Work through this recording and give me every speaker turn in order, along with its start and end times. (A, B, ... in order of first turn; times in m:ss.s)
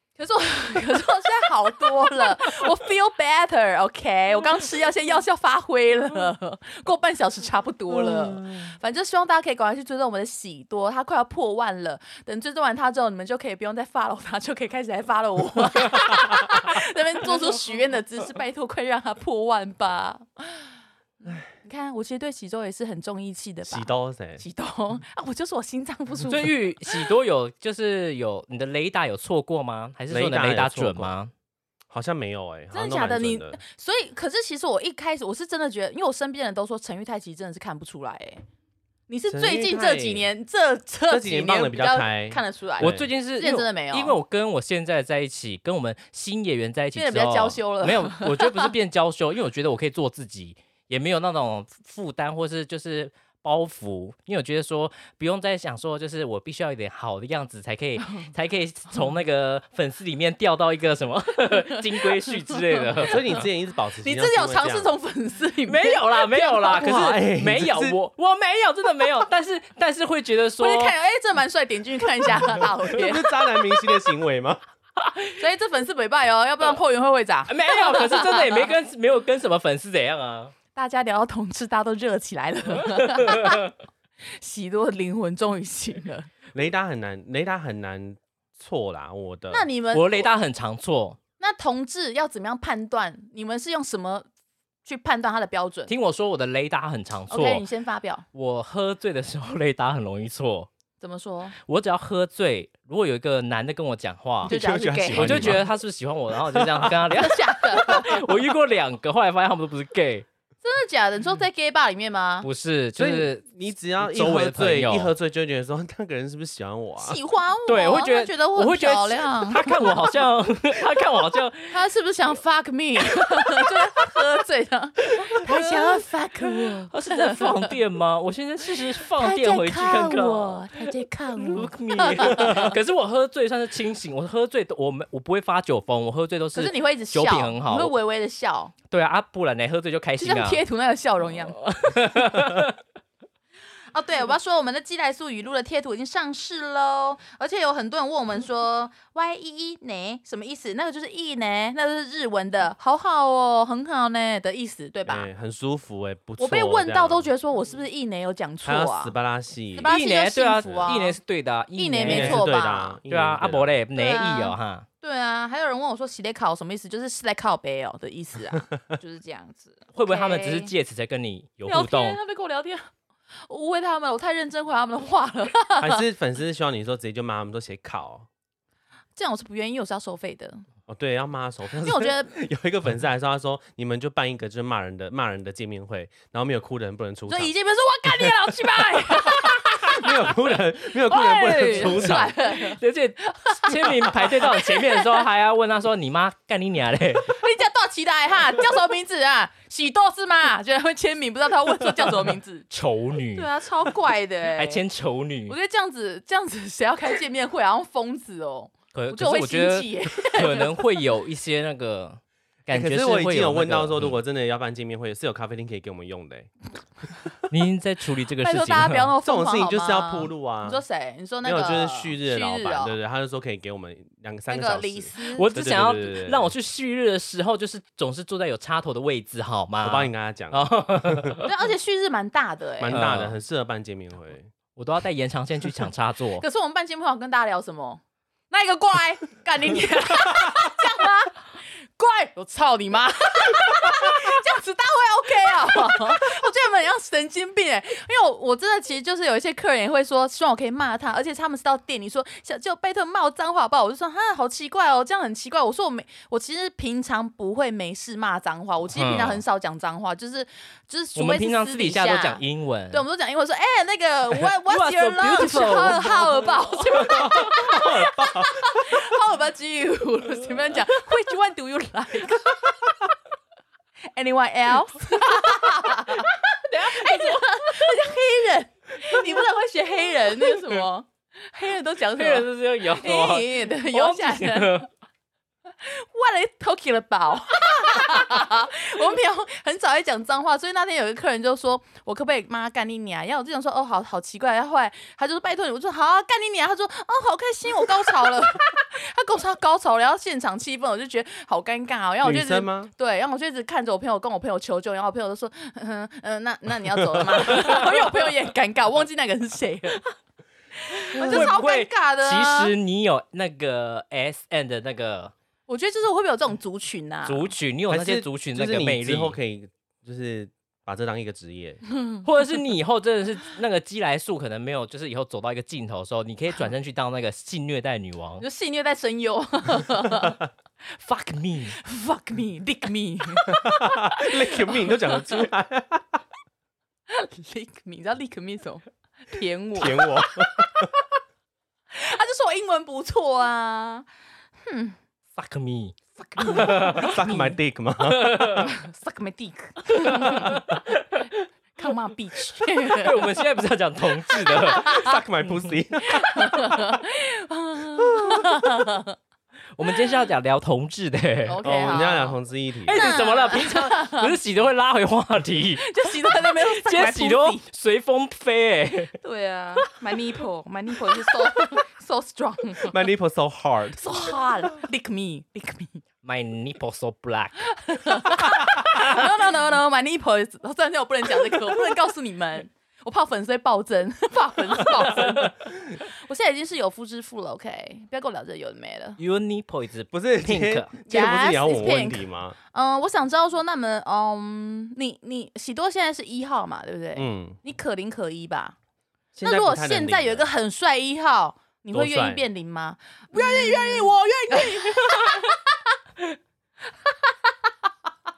0:00.2-0:20.6 A
0:07.9-0:08.7 B
0:21.5-0:26.5 A
0:23.7-0:24.4 B
0:26.3-0:31.3 C
0:30.1-0:31.1 B
0:31.9-0:33.6 B
0:32.7-0:38.4 A
0:39.1-0:44.2 A
0:39.3-0:40.3 B
0:41.1-0:43.1 B
0:42.8-1:03.2 C
0:47.0-0:48.7 A
1:01.7-1:03.1 A
1:03.0-1:04.9 B
1:04.0-1:07.1 A
1:05.6-1:10.9 C
1:06.7-1:08.0 B
1:10.6-1:13.5 A
1:13.0-1:14.6 B
1:15.3-1:18.7 A
1:17.5-1:20.5 C
1:20.7-1:23.6 A
1:22.8-1:23.7 C
1:24.4-1:26.3 A
1:26.5-1:29.7 B
1:29.5-1:30.3 A
1:29.9-1:31.2 C
1:31.4-1:34.3 A
1:34.8-1:35.9 A
1:35.9-1:37.6 C
1:37.3-1:38.2 A
1:38.3-1:40.7 C
1:41.0-1:41.6 A
1:41.6-1:44.6 C
1:44.4-1:45.6 B
1:44.4-1:45.6 A
1:45.1-1:50.2 C
1:46.5-1:47.1 B
1:47.1-1:48.2 A
1:50.6-1:52.5 A
1:52.4-1:53.5 C
1:53.0-1:57.2 B
1:54.0-1:55.1 C
1:57.0-2:00.1 A
1:57.7-2:01.8 C
2:01.7-2:07.7 A
2:05.2-2:06.0 C
2:06.9-2:17.9 C
2:09.0-2:12.8 A
2:16.5-2:18.7 A
2:18.9-2:20.6 C
2:20.2-2:21.6 A
2:21.6-2:22.8 C
2:23.9-2:35.3 A
2:35.0-2:37.3 B
2:36.4-2:39.1 A
2:38.6-2:39.9 B
2:39.8-2:41.2 A
2:39.8-2:42.5 C
2:41.7-2:43.0 A
2:42.0-2:43.7 B
2:43.1-2:44.8 C
2:43.9-2:50.7 A
2:49.9-2:52.2 C
2:51.6-2:52.8 A
2:53.5-2:56.0 A
2:55.8-2:58.3 B
2:59.2-3:00.6 A
3:00.9-3:07.5 B
3:01.8-3:02.3 A
3:07.3-3:10.1 A
3:08.0-3:08.4 B
3:09.9-3:12.3 B
3:11.1-3:15.2 A
3:11.1-3:17.4 C
3:17.2-3:22.6 A
3:22.7-3:23.5 C
3:23.3-3:24.8 A
3:24.6-3:25.5 C
3:25.5-3:31.0 A
3:28.9-3:34.1 C
3:32.7-3:36.5 B
3:37.5-3:39.1 C
3:38.4-3:42.9 A
3:39.2-3:40.8 B
3:41.4-3:46.5 B
3:44.5-3:45.4 A
3:45.3-3:51.5 C
3:49.8-3:51.4 B
3:51.4-3:53.0 A
3:52.8-3:54.5 B
3:52.9-3:53.4 C
3:54.8-3:56.4 C
3:56.4-4:32.6 A
4:18.9-4:19.4 C
4:21.2-4:23.0 C
4:24.3-4:27.5 C
4:27.1-4:28.7 B
4:34.1-4:44.8 A
4:36.7-4:37.9 C
4:42.2-4:44.9 C
4:45.7-5:10.0 A
5:02.2-5:02.9 B
5:07.6-5:08.0 C
5:10.8-5:12.7 A
5:11.1-5:15.3 C
5:11.2-5:11.6 B
5:15.7-5:17.5 A
5:17.2-5:19.3 C
5:17.9-5:21.8 B
5:22.2-5:28.4 C
5:28.4-5:30.4 A
5:31.0-5:31.8 C
5:31.8-5:35.4 A
5:33.5-5:36.2 B
5:37.1-5:40.9 A
5:39.8-5:40.9 B
5:41.9-5:44.1 A
5:44.6-5:45.0 A
5:45.4-5:47.2 C
5:46.2-5:47.5 A
5:46.5-5:48.4 B
5:48.0-5:48.7 C
5:48.6-5:50.7 A
5:50.1-5:51.3 C
5:51.7-5:53.2 A
5:52.6-5:55.1 C
5:54.3-5:55.1 A
5:54.7-5:57.0 B
5:56.1-5:59.1 A
5:58.0-5:58.5 B
5:59.7-6:01.6 C
6:01.5-6:02.4 A
6:01.6-6:03.1 B
6:02.8-6:09.1 C
6:02.9-6:04.3 A
6:05.8-6:07.6 A
6:09.2-6:12.9 A
6:12.9-6:14.0 B
6:14.0-6:16.0 A
6:16.2-6:18.2 C
6:17.8-6:29.2 A
6:19.0-6:19.2 C
6:29.2-6:30.9 C
6:30.1-6:32.6 B
6:31.0-6:38.8 A
6:37.2-6:37.6 B
6:39.3-6:40.5 B
6:39.4-6:45.6 A
6:41.9-6:42.4 B
6:43.4-6:44.1 C
6:45.1-6:45.3 C